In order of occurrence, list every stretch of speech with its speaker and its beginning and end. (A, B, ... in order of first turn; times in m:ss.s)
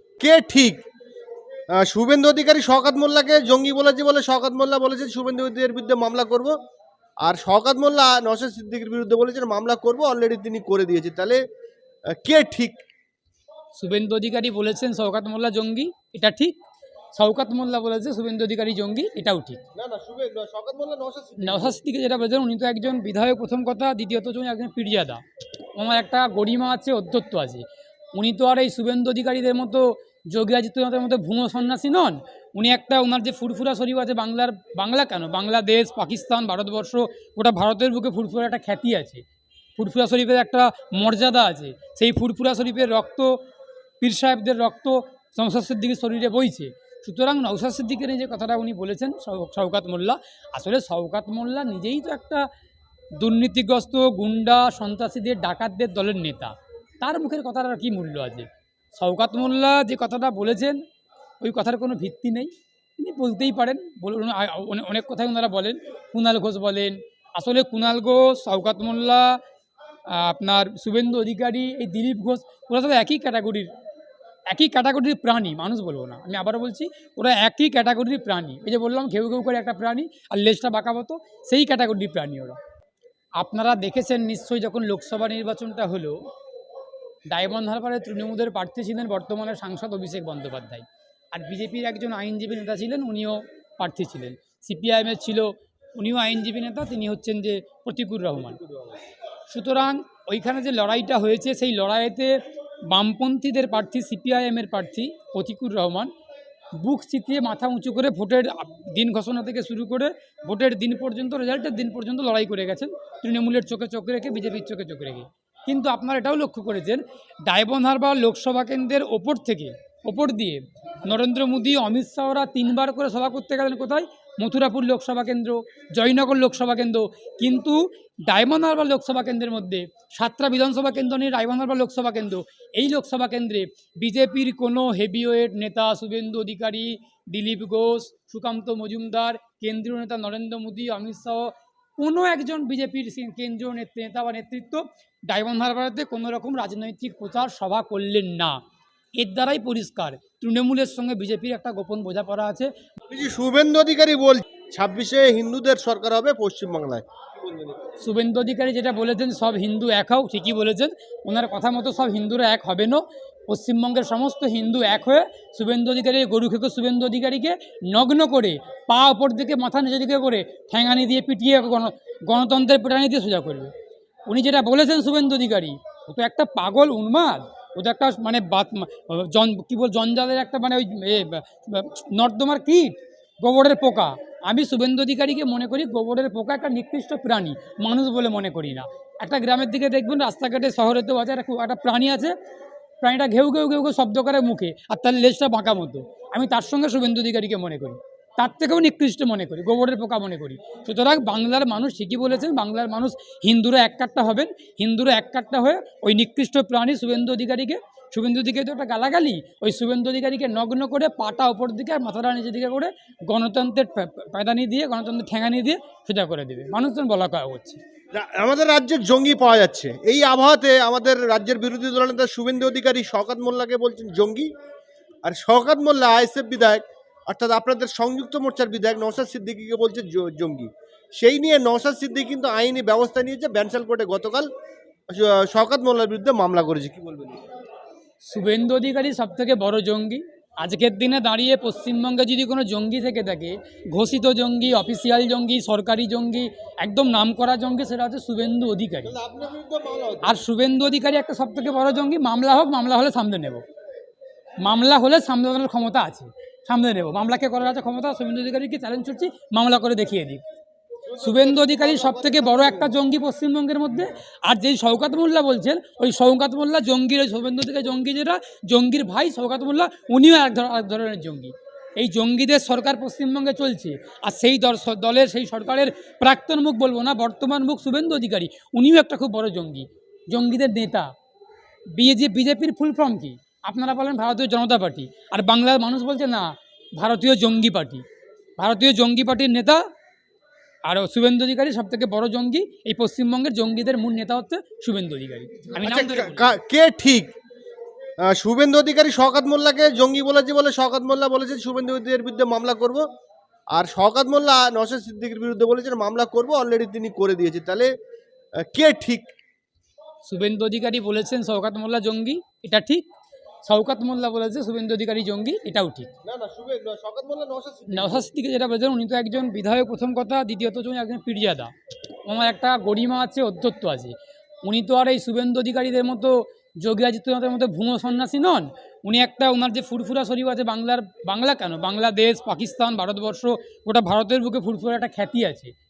0:00.2-0:00.8 A
0:01.8-0:06.6 A
0:07.2-0:11.4 A
0:12.1-0:12.8 A
0:13.8-0:16.6 B
0:17.1-0:19.6 B
0:19.8-0:21.8 A
0:21.4-0:25.2 B
0:25.8-0:39.2 B
0:39.8-0:43.4 B
0:44.0-0:52.5 B
0:53.2-1:00.8 B
1:01.4-1:09.4 B
1:10.1-1:13.7 B
1:14.5-1:22.6 B
1:23.4-1:26.2 B
1:27.3-1:38.6 B
1:38.7-1:39.0 A
1:39.5-1:42.4 B
1:42.9-1:46.1 B
1:46.8-2:28.6 B
2:29.2-2:32.7 B
2:33.1-2:37.9 A
2:38.0-2:53.7 B
2:54.3-3:12.4 B
3:13.0-3:37.8 B
3:38.1-3:44.5 A
3:45.2-3:54.5 A
3:55.1-3:57.4 A
3:58.2-4:09.1 B
4:09.1-4:10.4 A
4:10.2-4:13.6 B
4:14.6-4:20.4 B
4:21.1-4:22.9 A
4:21.2-4:41.1 B
4:41.9-4:48.0 B
4:48.6-4:49.8 B
4:50.9-4:56.6 B
4:55.8-4:57.3 A
4:58.3-5:03.0 A
5:03.7-5:07.9 A
5:08.6-5:09.3 A
5:10.3-5:13.1 B
5:13.6-5:16.1 B
5:16.2-5:18.3 A
5:17.9-5:21.7 B
5:22.2-5:35.7 B